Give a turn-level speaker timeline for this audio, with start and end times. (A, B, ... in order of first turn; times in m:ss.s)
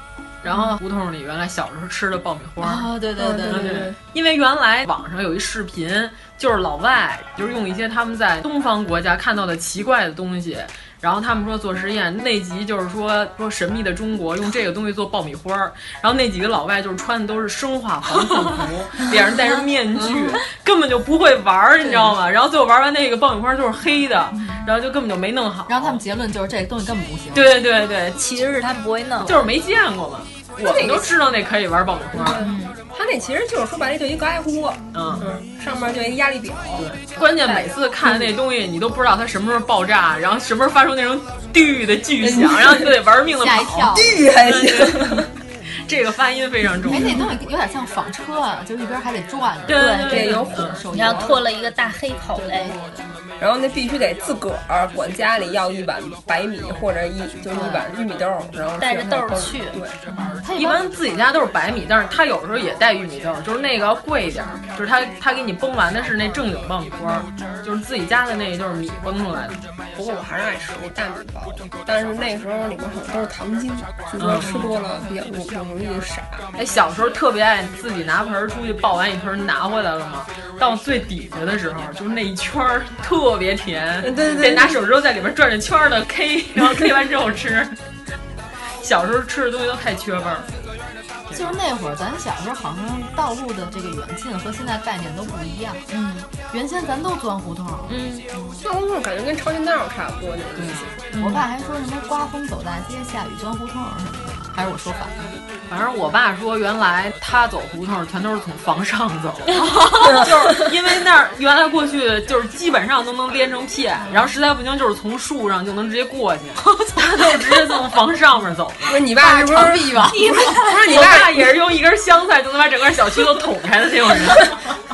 0:00.4-0:02.9 A
0:02.6-0:03.9 B
0:03.2-0:04.0 C
0:03.5-0:26.0 A
0:19.5-0:20.4 B
0:21.8-0:22.2 B
0:25.7-0:27.6 B
0:27.3-0:28.2 A
0:28.2-0:29.4 D
0:29.2-0:32.4 A
0:30.7-0:31.1 C
0:32.2-0:36.9 C
0:32.3-0:32.8 D
0:34.9-0:35.3 A
0:36.8-0:45.3 A
0:37.4-0:38.3 C
0:42.2-0:42.9 C
0:43.4-0:44.2 B
0:43.9-0:45.3 C
0:45.9-0:47.3 A
0:46.9-0:51.4 B
0:49.7-0:50.8 A
0:49.7-0:52.8 D
0:50.1-0:50.8 C
0:52.4-1:00.0 C
0:57.5-0:57.9 B
0:58.8-1:00.4 D
1:00.4-1:00.8 B
1:00.6-1:09.6 A
1:10.0-1:16.4 C
1:14.2-1:14.7 A
1:16.6-1:27.8 A
1:24.0-1:24.8 C
1:28.8-1:30.5 A
1:31.3-1:35.8 B
1:35.9-1:36.3 D
1:36.5-1:38.0 B
1:37.9-1:38.3 D
1:38.6-1:40.9 C
1:40.6-1:40.9 A
1:41.1-1:41.4 D
1:41.2-1:45.4 B
1:45.7-1:59.0 A
1:49.6-1:50.3 B
1:58.9-2:01.5 C
1:59.2-2:00.8 B
2:00.8-2:04.6 A